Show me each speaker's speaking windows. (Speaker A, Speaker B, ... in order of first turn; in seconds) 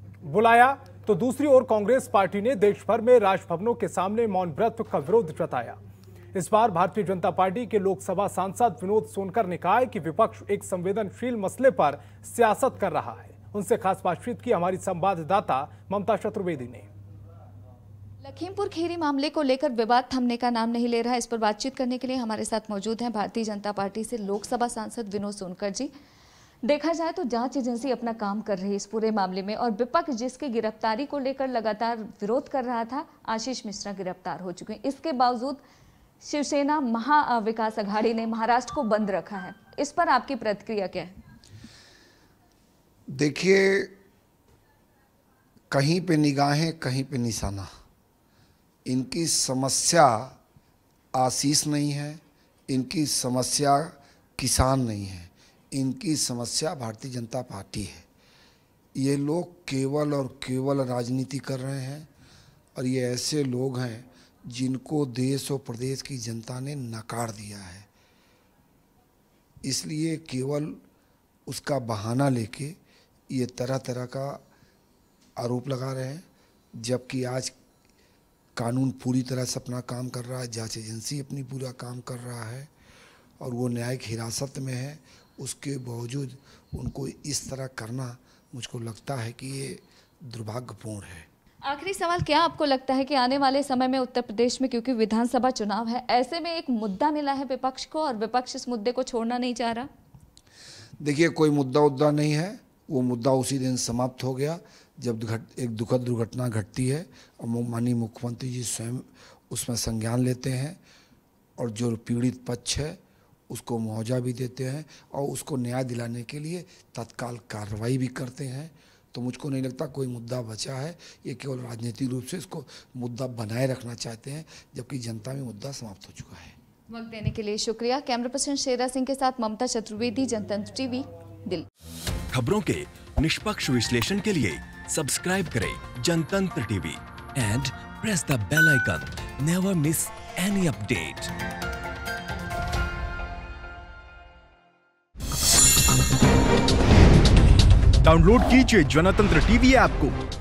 Speaker A: 0.2-5.8, 6.3-16.9
Speaker B: 18.2-25.9, 26.6-35.6, 36.2-41.1, 91.7-99.9, 126.9-131.7
Speaker C: 43.1-43.9, 45.7-47.7, 48.9-50.3, 51.1-58.0, 58.9-62.1, 62.7-67.9, 69.6-70.8, 71.5-72.8, 73.3-74.4, 75.4-77.5, 78.5-82.7, 83.4-91.3, 101.0-110.8, 111.6-126.5
Speaker D: 132.3-141.3
Speaker E: 148.0-150.1